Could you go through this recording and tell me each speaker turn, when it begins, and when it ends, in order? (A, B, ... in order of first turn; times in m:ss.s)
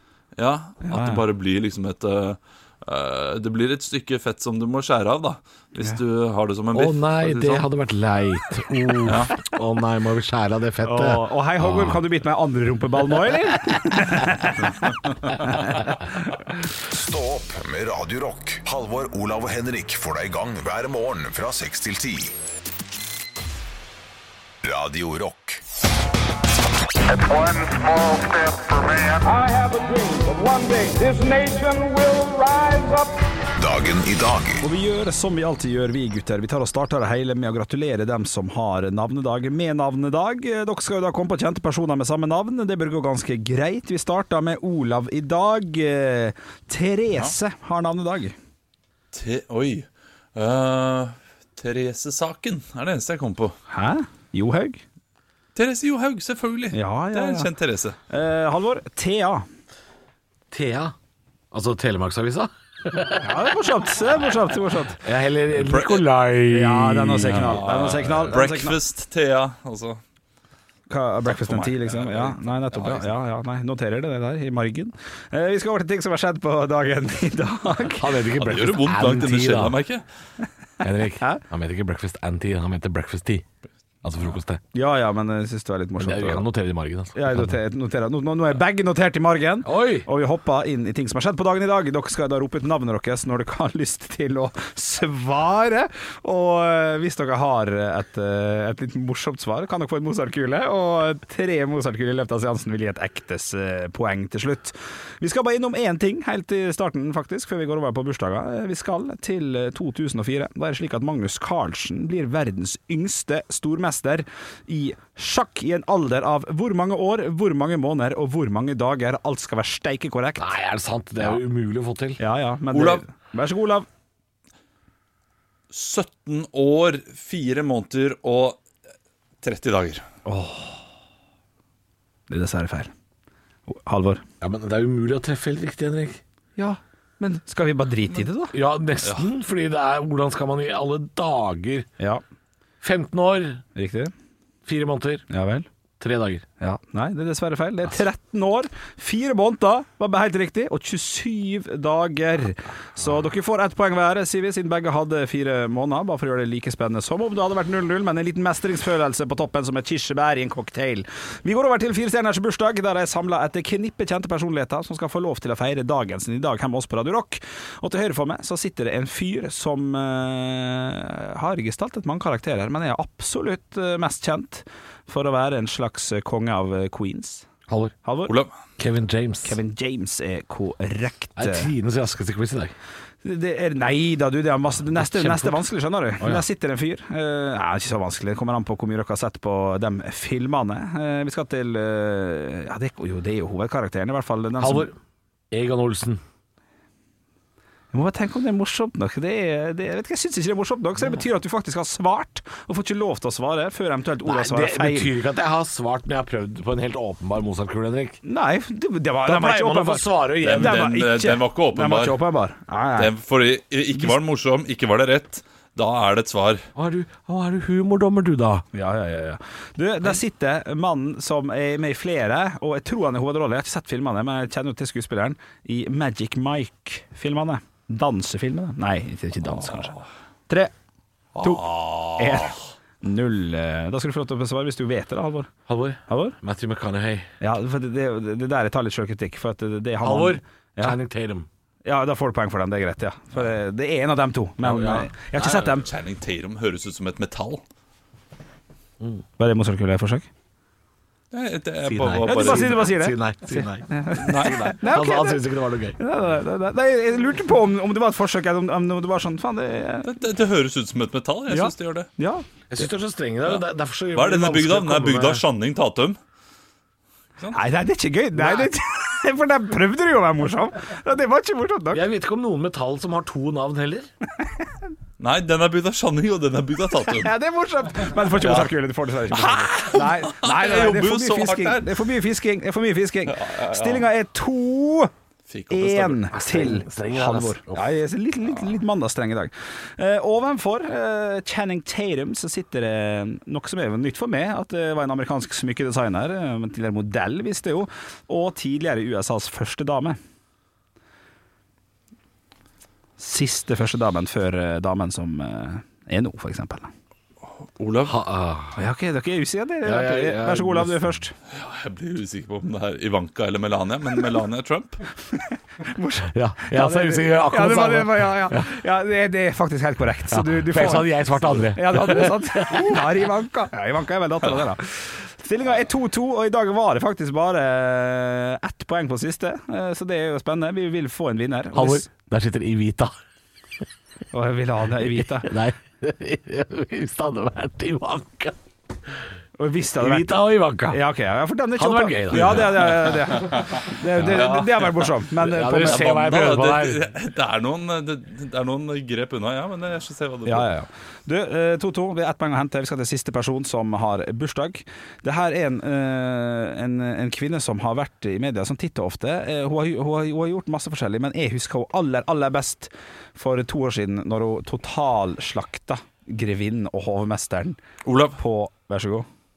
0:00.4-0:07.7 A
0:00.8-0:01.2 B
0:06.7-0:12.0 C
0:09.0-0:09.3 A
0:10.8-0:14.8 B
0:15.5-0:16.3 B
0:16.9-0:22.3 D
0:24.6-0:25.6 D
0:27.4-0:28.0 E
0:29.1-0:33.1 E
0:33.6-0:34.6 D
0:34.6-0:48.4 B
0:49.1-0:53.6 A
0:53.7-0:54.8 B
0:55.6-0:58.0 A
0:56.7-0:57.5 B
0:58.1-0:59.5 B
1:00.5-1:00.9 C
1:01.5-1:03.3 C
1:03.2-1:05.0 B
1:05.0-1:07.7 C
1:05.6-1:06.0 A
1:06.5-1:08.8 B
1:07.3-1:10.0 A
1:10.9-1:18.1 B
1:11.3-1:13.1 A
1:18.0-1:19.8 C
1:18.4-1:20.0 A
1:20.8-1:23.4 C
1:24.0-1:24.6 C
1:24.7-1:26.4 B
1:26.0-1:27.6 C
1:27.2-2:00.5 B
1:29.6-1:30.1 C
2:00.4-2:02.2 C
2:02.2-2:03.9 B
2:02.7-2:03.0 A
2:05.7-2:08.6 A
2:09.4-2:10.0 A
2:10.2-2:10.8 B
2:12.3-2:12.9 B
2:13.7-2:14.2 B
2:14.4-2:16.2 C
2:16.6-2:18.6 B
2:18.5-2:21.9 C
2:22.8-2:23.6 C
2:23.8-2:24.1 B
2:24.7-2:25.3 C
2:25.3-2:25.7 B
2:26.0-2:26.4 C
2:26.6-2:57.5 B
2:57.7-2:58.0 C
2:58.0-2:58.3 B
2:58.8-2:59.6 C
2:59.4-3:01.7 B
3:01.4-3:02.7 C
3:03.2-3:14.9 B
3:04.9-3:05.6 C
3:06.2-3:06.4 C
3:14.6-3:14.9 C
3:15.5-3:16.2 C
3:17.9-3:25.1 B
3:24.2-3:28.2 C
3:28.2-3:33.1 B
3:29.2-3:30.8 C
3:30.4-3:32.2 A
3:33.0-3:36.7 A
3:33.9-3:34.2 B
3:36.8-3:38.6 C
3:38.7-3:49.9 B
3:49.5-3:50.0 A
3:51.4-3:52.6 A
3:51.4-3:55.5 B
3:55.7-3:57.3 C
3:56.1-3:56.4 B
3:57.4-4:01.0 B
4:00.0-4:01.5 C
4:01.8-4:05.9 B
4:04.6-4:05.6 C
4:05.4-4:07.6 A
4:09.4-4:10.3 B
4:11.3-4:12.9 A
4:11.8-4:16.0 C
4:12.2-4:15.4 B
4:14.2-4:14.8 A
4:16.0-4:20.1 B
4:20.0-4:22.1 A
4:21.5-4:22.4 B
4:22.7-4:25.4 C
4:23.5-4:26.2 A
4:27.5-4:32.0 B
4:28.4-4:28.7 C
4:31.9-4:34.1 C
4:35.2-4:37.3 A
4:37.1-4:45.1 B
4:38.4-4:38.7 A
4:39.3-4:41.9 A
4:43.3-4:44.1 A
4:45.5-4:46.2 A
4:45.7-5:00.2 B
4:46.3-4:47.9 C
5:03.2-5:06.9 B
5:07.6-5:08.2 A
5:08.0-5:08.8 C
5:08.8-5:11.3 B
5:09.8-5:11.0 C
5:11.5-5:15.0 A
5:15.8-5:32.1 B
5:16.3-5:18.7 C
5:20.3-5:23.1 C
5:31.7-5:33.1 C
5:34.3-5:35.5 B
5:35.4-5:38.6 C
5:39.6-5:46.1 B
5:40.0-5:41.0 C
5:41.8-5:42.9 C
5:42.3-5:45.1 A
5:45.4-5:47.1 C
5:45.8-5:50.7 A
5:50.5-6:07.8 B
6:08.0-6:08.4 A
6:08.4-6:09.3 B